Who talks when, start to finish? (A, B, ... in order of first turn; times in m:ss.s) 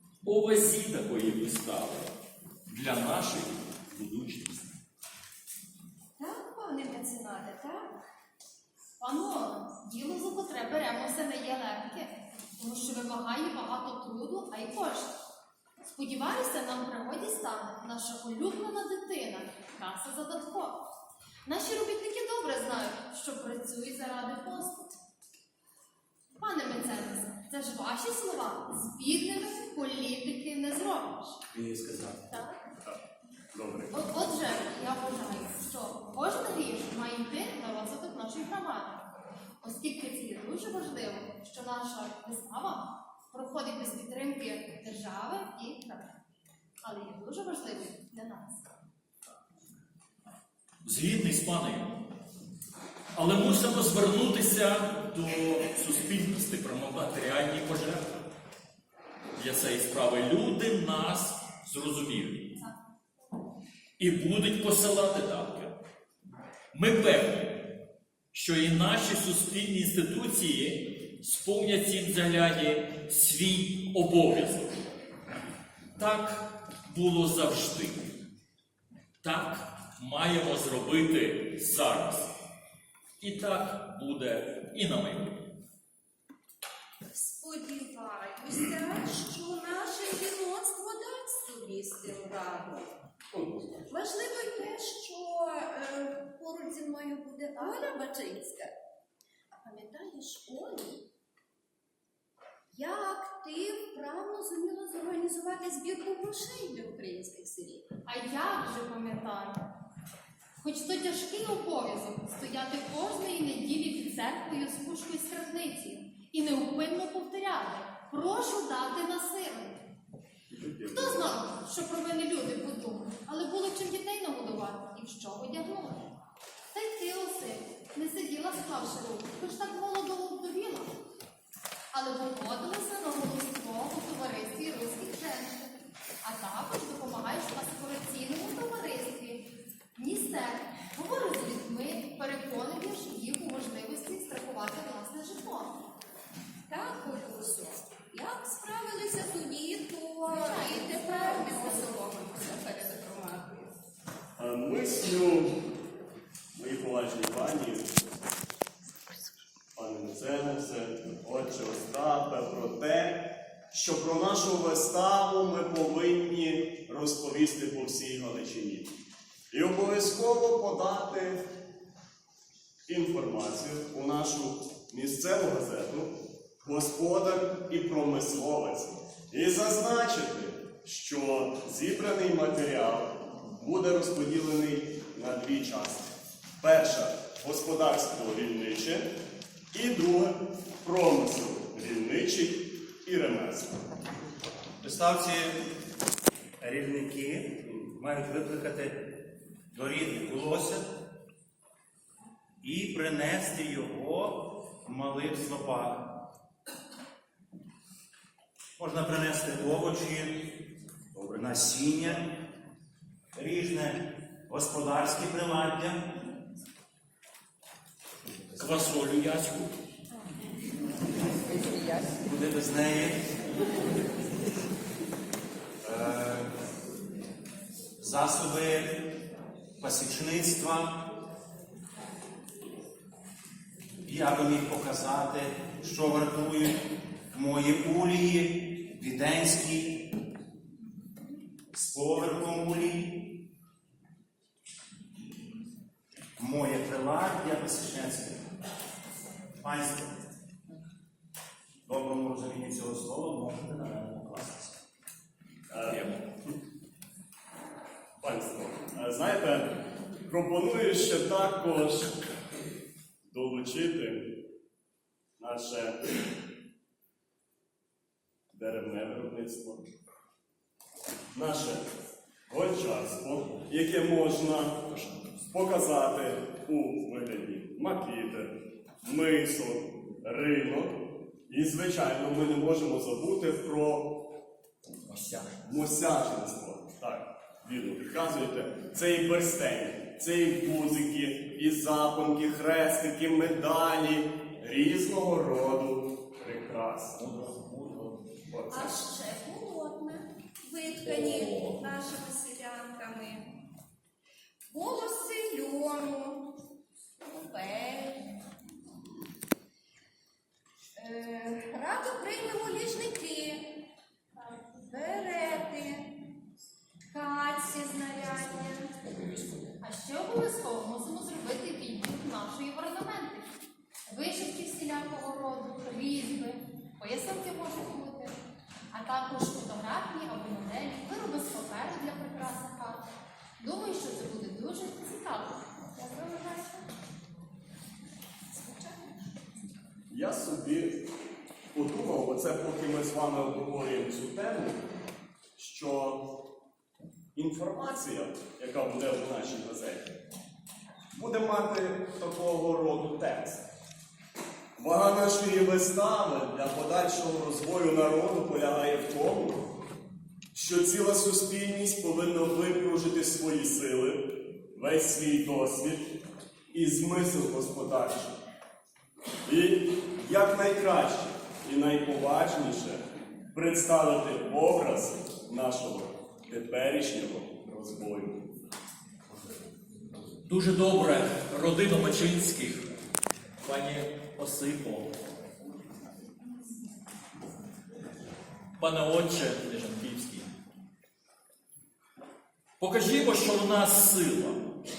0:00.2-0:02.1 A
0:02.7-0:04.8 A
0:06.2-0:07.9 B
0:09.0-0:15.2 C
0:15.9-0:20.8 C
0:21.4-0:25.0 C
0:26.4-0:31.4 C
0:31.5-0:32.2 D
0:32.3-0:32.6 C
0:33.5-0:34.0 E
0:33.9-0:39.0 C
0:39.6-0:46.1 C
0:46.8-0:48.6 C
0:50.8-0:52.0 A
0:53.1-0:58.1 A
0:59.4-1:02.5 A
1:04.0-1:05.8 A
1:06.7-1:07.6 A
1:08.3-1:14.8 A
1:16.0-1:18.2 A
1:19.2-1:22.3 A
1:23.2-1:25.5 A
1:27.1-1:32.9 B
1:33.3-1:33.9 E
1:33.9-1:38.7 B
1:39.6-1:41.1 B
1:42.7-1:47.9 B
1:48.0-1:49.6 C
1:50.6-1:59.8 C
2:00.5-2:01.4 E
2:00.9-2:06.1 C
2:06.7-2:10.9 C
2:11.9-2:25.8 C
2:26.7-2:33.7 B
2:30.2-2:31.9 C
2:34.4-2:35.5 E
2:36.5-2:38.1 E
2:39.7-2:48.9 E
2:49.5-2:51.4 E
2:52.9-3:09.1 E
3:09.7-3:13.7 E
3:14.8-3:15.6 D
3:16.6-3:19.1 D
3:17.6-3:17.9 E
3:19.7-3:20.8 D
3:22.6-3:26.2 D
3:28.8-3:30.5 D
3:31.1-3:32.4 D
3:33.3-3:36.1 D
3:38.5-3:39.7 A
3:42.2-3:43.2 D
3:45.8-3:46.5 D
3:48.0-3:49.0 D
3:49.8-3:51.0 D
3:54.0-3:56.8 D
3:57.3-4:00.1 D
4:01.7-4:03.4 D
4:06.4-4:08.4 D
4:09.6-4:10.2 D
4:11.8-4:14.8 D
4:15.7-4:16.1 E
4:15.9-4:16.2 A
4:18.2-4:19.8 E
4:20.3-4:22.1 E
4:23.3-4:24.3 E
4:25.4-4:26.0 E
4:28.5-4:29.9 E
4:31.3-4:31.9 E
4:32.5-4:34.8 E
4:34.9-4:35.4 A
4:35.5-4:44.2 E
4:45.0-4:45.6 A
4:45.6-4:57.4 E
4:57.2-4:58.3 A
4:58.4-4:59.0 E
4:58.7-5:03.6 B
5:01.0-5:01.8 A
5:04.7-5:06.6 B
5:07.2-5:08.3 B
5:11.0-5:13.8 B
5:14.4-5:14.7 C
5:14.8-5:16.2 B
5:17.1-5:18.9 B
5:19.0-5:19.8 A
5:19.8-5:23.5 C
5:24.1-5:28.3 C
5:28.9-5:33.0 C
5:33.6-5:35.6 C
5:35.9-5:36.9 B
5:38.5-5:39.3 B
5:40.1-5:41.0 E
5:41.7-5:44.8 E
5:45.6-5:46.3 E
5:47.3-5:50.2 E
5:51.1-5:53.6 E
5:54.8-5:59.6 E
6:00.5-6:06.2 E
6:06.7-6:08.4 E
6:09.4-6:13.0 E
6:13.5-6:18.4 E
6:20.4-6:22.9 A
6:23.6-6:25.1 A
6:28.8-6:30.5 A
6:32.8-6:34.6 A